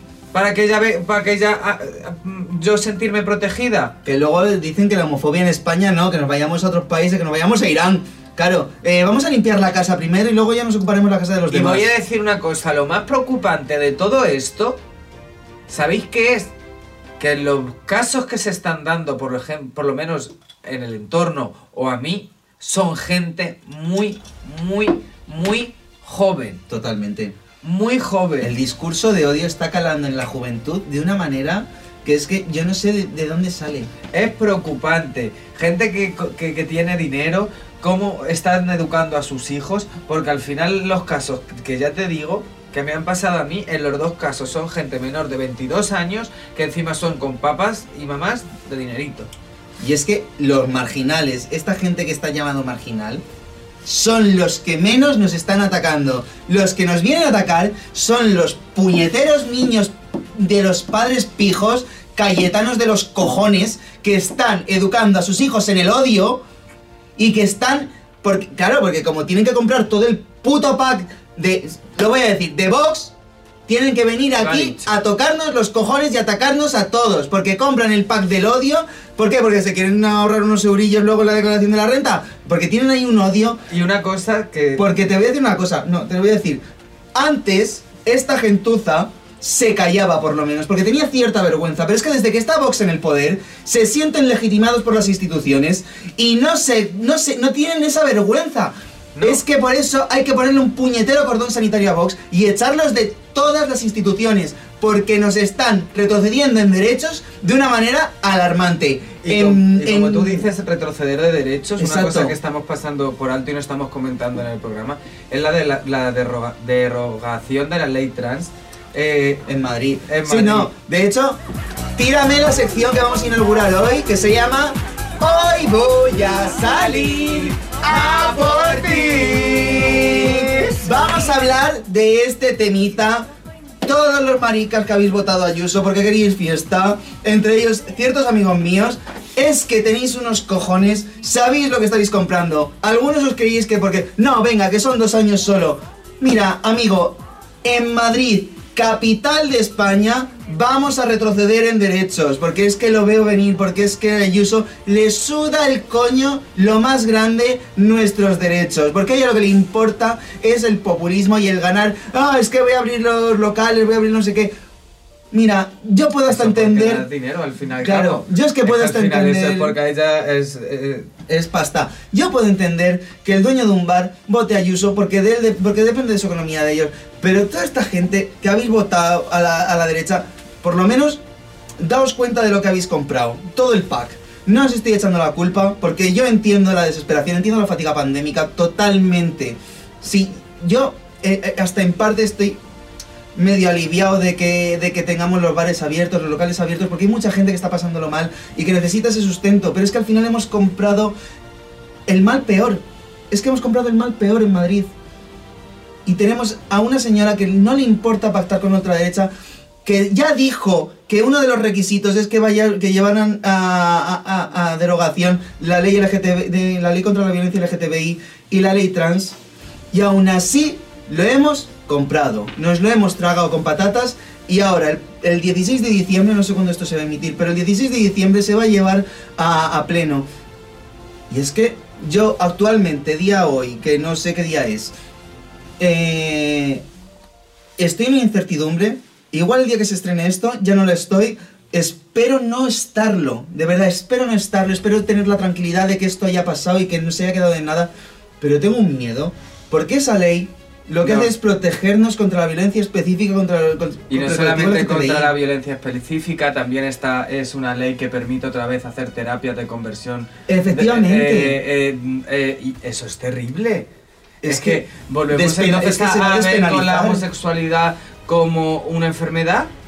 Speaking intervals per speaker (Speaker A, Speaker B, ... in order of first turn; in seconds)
Speaker A: 0.3-3.9, 11.5-14.8, 15.7-16.5, 17.2-26.6, 27.6-28.5, 34.1-49.3, 74.4-74.9, 83.7-84.9, 99.1-99.4, 109.2-119.4, 120.1-120.7, 127.1-131.1, 166.3-171.1, 251.0-251.3, 254.1-263.9, 264.4-269.7
Speaker B: 4.0-11.9, 26.7-27.4, 28.4-33.9, 49.8-53.2, 53.9-66.4, 67.2-73.1, 73.7-83.6, 84.8-86.6, 87.1-110.5, 111.8-112.3, 119.5-121.4, 122.0-133.3, 133.8-164.5, 165.3-167.0, 167.8-169.8, 171.2-181.2, 181.8-192.6, 193.3-201.1, 202.1-204.9, 206.1-209.3, 209.8-219.4, 219.9-230.2, 231.3-234.9, 235.8-236.8, 237.8-247.9, 248.4-255.3, 260.5-261.6, 264.4-267.2